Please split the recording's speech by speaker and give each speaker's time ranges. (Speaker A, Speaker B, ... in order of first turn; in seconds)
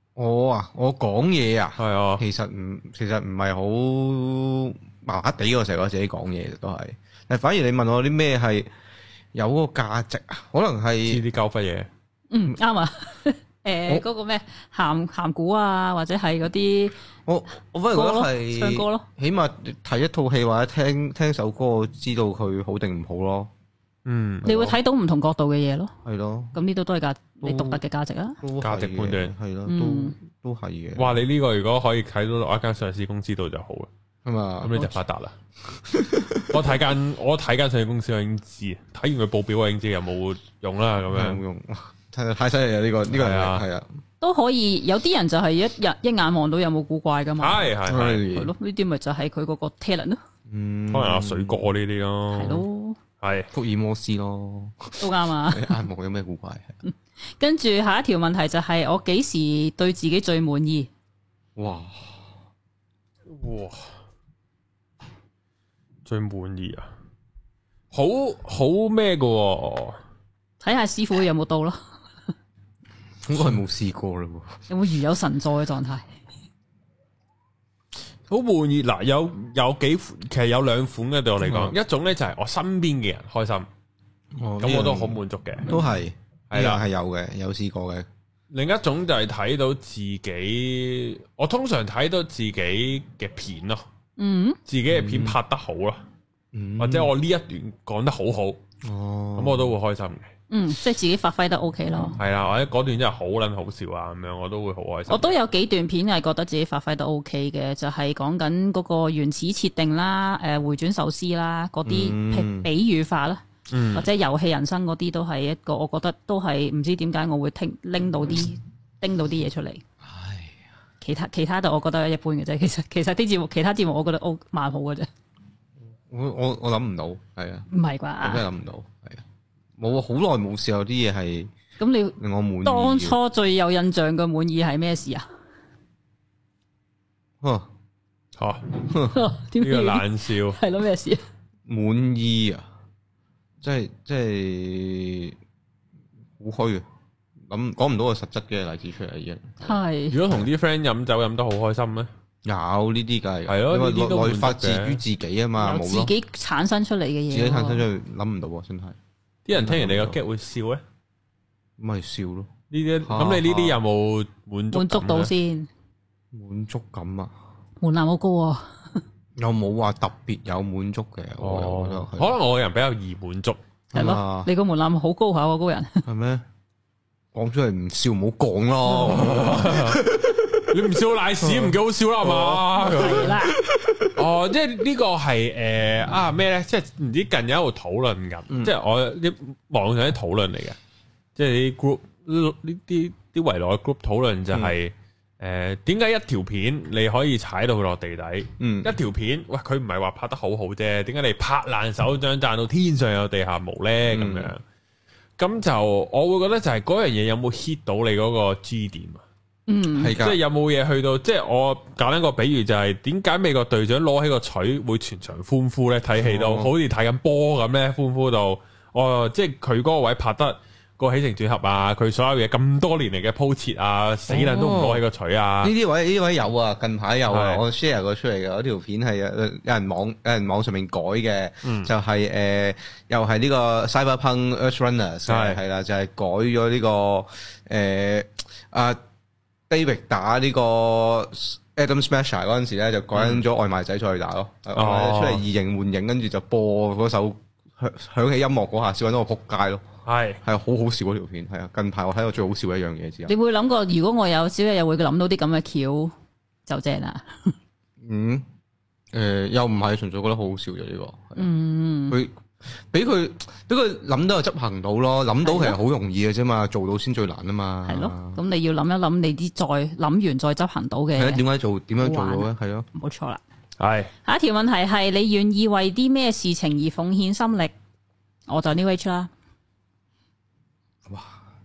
Speaker A: 0.2-8.7, 9.3-11.2, 17.3-23.5, 24.4-24.8, 26.1-26.6, 27.4-27.8, 28.4-31.2, 34.2-34.9, 35.7-36.7, 41.1-43.9, 47.9-48.5, 50.5-51.6, 53.5-56.8, 61.6-62.3, 73.2-74.5, 81.4-81.8, 84.4-88.1, 94.9-95.4, 96.5-97.1, 98.8-99.8, 111.8-112.7, 120.0-120.6, 126.1-127.7, 128.2-129.2, 129.8-131.5, 132.2-133.2, 137.4-137.7, 138.9-139.2, 141.7-142.7, 143.6-145.4, 146.4-146.8, 147.5-150.5, 152.4-156.1, 157.3-159.0, 159.5-160.2, 161.8-162.5, 163.0-163.8, 166.3-167.3, 169.4-172.4, 173.9-174.5, 176.1-176.4, 177.3-180.8, 181.4-184.2, 198.6-199.0, 204.1-204.5, 210.0-210.4, 216.2-216.7, 224.3-225.0, 225.6-239.0, 239.7-249.8, 250.4-253.3, 258.0-258.5, 259.1-261.5, 262.1-268.4, 271.1-272.9, 281.1-281.4
Speaker B: 1.8-2.2, 11.1-11.9, 24.1-24.4, 28.6-29.3, 31.0-33.9, 34.6-35.3, 36.5-41.4, 43.1-43.6, 47.4-48.3, 50.9-52.6, 53.2-53.5, 63.3-63.8, 66.1-66.9, 67.9-70.0, 78.3-83.7, 84.6-85.7, 86.5-86.8, 88.5-93.8, 94.7-96.0, 96.8-98.6, 99.4-100.3, 102.2-105.4, 113.7-114.1, 138.4-138.6, 139.6-140.6, 150.1-152.1, 153.5-155.0, 159.5-160.8, 162.7-165.3, 171.4-173.6, 178.9-183.4, 184.2-190.8, 191.4-204.6, 205.4-209.2, 210.1-225.7, 227.3-227.6, 231.6-231.9, 235.3-235.6, 243.2-243.4, 244.8-245.4, 250.1-250.4, 273.8-274.1
Speaker C: 12.3-16.9, 17.9-19.1, 24.4-25.9, 26.5-28.4, 29.7-30.1, 44.2-47.7, 48.2-50.2, 52.3-53.0, 55.0-55.8, 56.9-60.9, 70.6-71.8, 74.7-76.0, 94.2-94.6, 100.5-102.2, 105.1-113.4, 113.9-119.8, 121.0-125.1, 127.7-128.5, 131.8-135.3, 139.0-141.2, 149.6-150.2, 155.6-157.9, 164.7-165.7, 167.8-168.7, 173.9-176.0, 182.8-183.6, 209.7-210.2, 253.3-256.1, 256.7-257.5, 261.4-262.2, 265.4-265.8, 267.9-271.4, 272.0-273.4, 274.2-277.7, 278.5-279.3